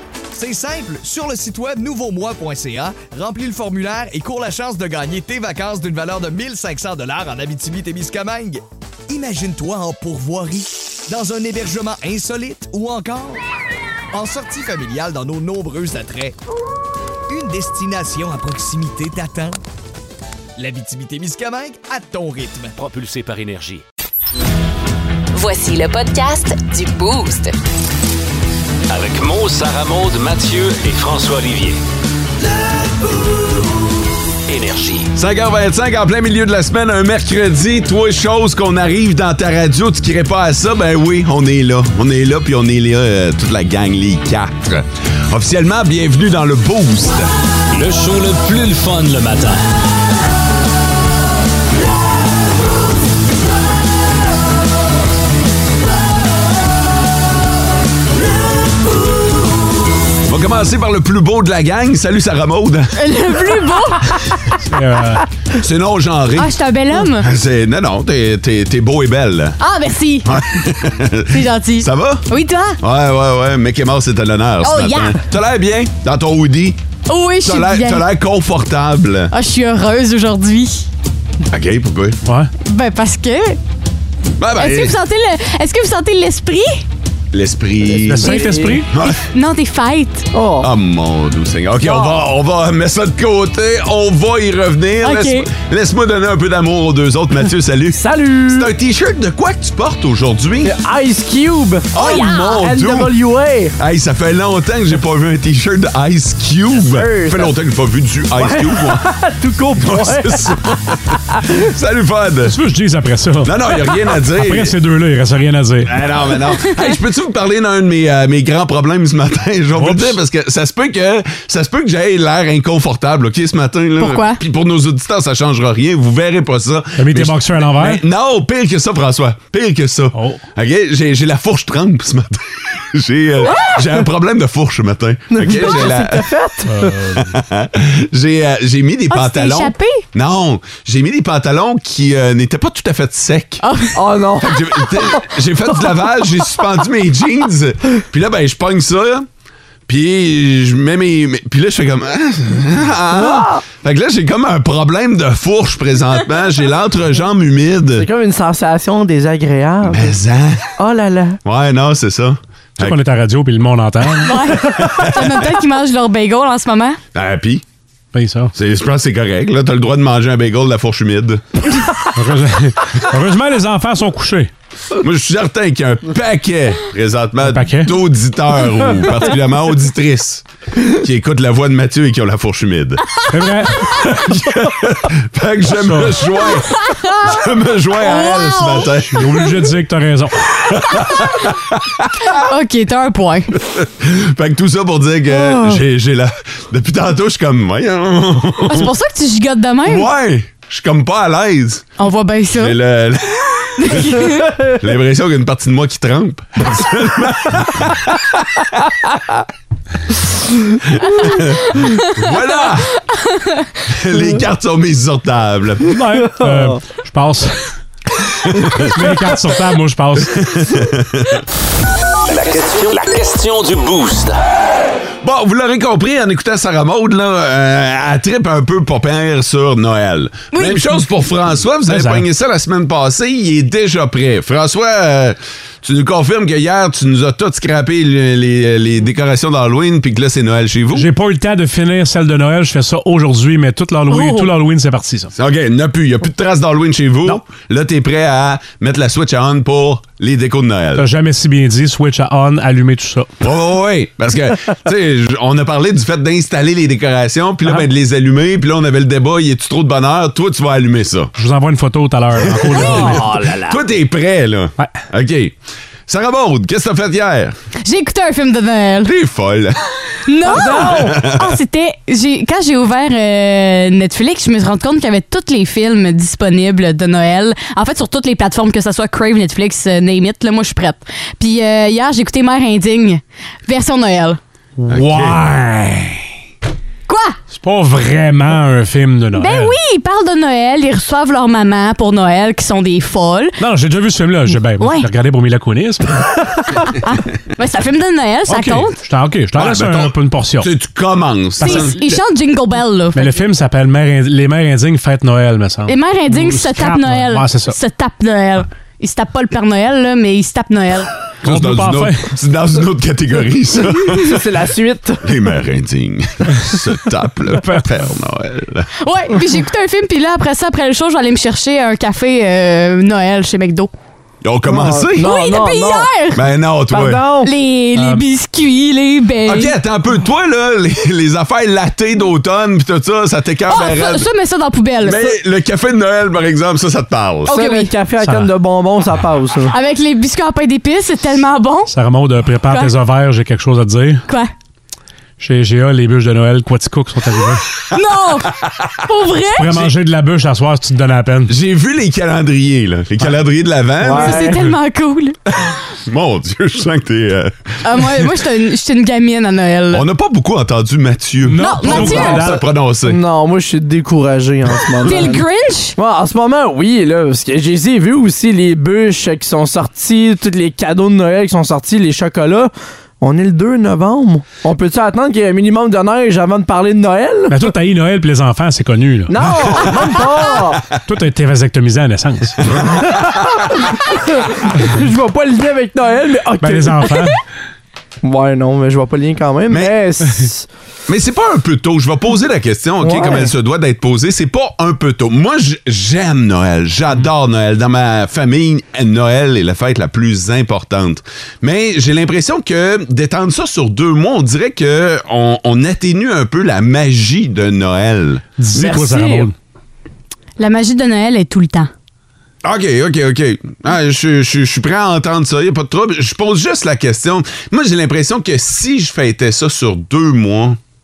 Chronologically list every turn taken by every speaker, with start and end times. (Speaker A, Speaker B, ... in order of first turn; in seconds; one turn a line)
Speaker A: 0.3-13.4
Speaker A: 14.1-16.4
Speaker A: 17.3-19.6
Speaker A: 20.6-22.7
Speaker B: 22.8-23.8
Speaker C: 25.4-27.5
Speaker B: 28.9-31.8
Speaker B: 34.5-35.1
Speaker D: 35.2-47.3
Speaker B: 47.7-49.6
Speaker D: 60.3-62.9
Speaker E: 63.0-64.0
Speaker F: 64.6-65.2
Speaker D: 65.6-66.5
Speaker E: 66.4-67.3
Speaker D: 67.2-69.6
Speaker E: 69.6-70.3
Speaker D: 70.3-71.3
Speaker E: 71.3-72.8
Speaker D: 71.8-72.2
Speaker D: 72.8-76.8
Speaker E: 74.6-75.2
Speaker E: 77.1-78.0
Speaker D: 77.5-79.3
Speaker E: 79.3-80.9
Speaker D: 81.5-82.2
Speaker F: 82.2-82.5
Speaker E: 82.7-83.6
Speaker D: 84.4-84.9
Speaker E: 84.6-86.8
Speaker D: 87.3-88.4
Speaker F: 88.0-88.9
Speaker E: 88.2-90.3
Speaker G: 88.4-88.8
Speaker G: 90.3-90.7
Speaker D: 90.6-100.7
Speaker G: 91.8-92.2
Speaker E: 95.0-95.5
Speaker G: 97.9-98.7
Speaker G: 100.6-103.7
Speaker D: 102.0-103.1
Speaker E: 102.0-102.5
Speaker D: 103.8-109.0
Speaker G: 106.9-107.5
Speaker G: 108.4-110.5
Speaker D: 109.8-111.0
Speaker D: 111.7-112.5
Speaker F: 112.5-115.9
Speaker D: 113.5-114.7
Speaker D: 115.9-136.2
Speaker F: 119.8-120.2
Speaker E: 124.0-124.4
Speaker F: 127.0-128.0
Speaker F: 130.1-130.4
Speaker G: 135.3-136.8
Speaker F: 136.7-137.2
Speaker D: 137.2-143.6
Speaker E: 139.1-140.0
Speaker E: 143.6-144.0
Speaker G: 143.9-145.1
Speaker D: 144.4-149.3
Speaker D: 149.9-158.1
Speaker G: 153.1-153.6
Speaker G: 158.0-160.2
Speaker D: 159.9-160.7
Speaker G: 160.8-161.4
Speaker D: 161.4-162.9
Speaker F: 162.8-164.3
Speaker E: 164.2-167.0
Speaker D: 167.2-167.6
Speaker F: 168.1-168.5
Speaker D: 168.6-171.4
Speaker F: 172.2-174.5
Speaker D: 175.0-180.4
Speaker F: 177.5-178.0
Speaker D: 181.0-183.1
Speaker F: 183.3-183.9
Speaker D: 184.1-186.7
Speaker F: 185.8-186.2
Speaker D: 187.2-189.2
Speaker E: 188.1-188.9
Speaker F: 189.1-190.5
Speaker D: 191.2-191.4
Speaker E: 192.3-193.5
Speaker D: 194.0-198.8
Speaker E: 195.4-195.7
Speaker E: 198.7-200.1
Speaker D: 199.9-201.9
Speaker E: 202.0-202.8
Speaker D: 202.6-203.7
Speaker E: 203.8-204.5
Speaker D: 204.8-207.9
Speaker D: 211.2-211.6
Speaker D: 212.2-212.9
Speaker E: 213.1-213.6
Speaker D: 213.9-215.8
Speaker F: 215.9-217.7
Speaker F: 218.9-220.4
Speaker D: 220.5-221.0
Speaker B: 222.3-224.4
Speaker D: 225.2-241.1
Speaker E: 230.5-231.0
Speaker F: 231.9-232.3
Speaker F: 240.9-245.3
Speaker E: 244.1-244.5
Speaker D: 245.4-251.1
Speaker F: 251.0-253.3
Speaker D: 253.4-261.3
Speaker F: 261.4-263.3
Speaker D: 262.7-265.5
Speaker D: 266.1-267.5
Speaker E: 267.9-269.1
Speaker D: 269.1-269.8
Speaker E: 270.3-284.4
Speaker G: 270.5-271.1
Speaker D: 270.7-271.2
Speaker F: 284.8-286.1
Speaker D: 284.9-285.4
Speaker E: 287.1-287.4
Speaker F: 287.5-289.8
Speaker E: 289.4-293.6
Speaker F: 293.6-296.1
Speaker E: 294.8-295.1
Speaker E: 297.0-299.0
Speaker F: 298.5-300.7
Speaker D: 300.6-301.9
Speaker E: 301.6-303.4
Speaker F: 301.6-301.9
Speaker F: 303.1-307.8
Speaker E: 305.9-311.1
Speaker F: 311.4-312.3
Speaker D: 311.5-314.2
Speaker G: 314.2-315.2
Speaker D: 315.2-318.9
Speaker E: 319.0-323.9
Speaker D: 324.4-325.3
Speaker G: 324.7-326.1
Speaker E: 325.2-326.4
Speaker D: 326.4-327.2
Speaker G: 326.9-327.5
Speaker E: 327.4-329.7
Speaker F: 328.0-328.2
Speaker D: 329.5-334.2
Speaker E: 333.7-335.3
Speaker D: 335.1-337.5
Speaker E: 337.5-337.9
Speaker G: 337.5-339.7
Speaker F: 338.2-338.5
Speaker E: 339.7-341.9
Speaker F: 341.9-344.2
Speaker E: 342.7-342.9
Speaker F: 345.4-347.6
Speaker E: 347.9-348.5
Speaker E: 349.0-349.7
Speaker F: 349.5-351.5
Speaker D: 351.5-354.4
Speaker G: 354.0-354.6
Speaker E: 354.1-355.4
Speaker D: 356.1-357.5
Speaker E: 357.9-360.0
Speaker D: 359.9-363.2
Speaker F: 361.5-362.7
Speaker E: 361.6-362.5
Speaker G: 363.1-365.4
Speaker E: 365.0-366.0
Speaker G: 366.0-377.5
Speaker F: 377.5-379.9
Speaker G: 379.3-380.8
Speaker F: 381.1-382.6
Speaker G: 384.9-387.2
Speaker F: 386.6-387.4
Speaker G: 388.2-390.7
Speaker D: 391.1-408.4
Speaker G: 393.0-393.5
Speaker F: 408.6-409.5
Speaker G: 408.8-409.5
Speaker E: 410.6-411.9
Speaker D: 412.6-420.8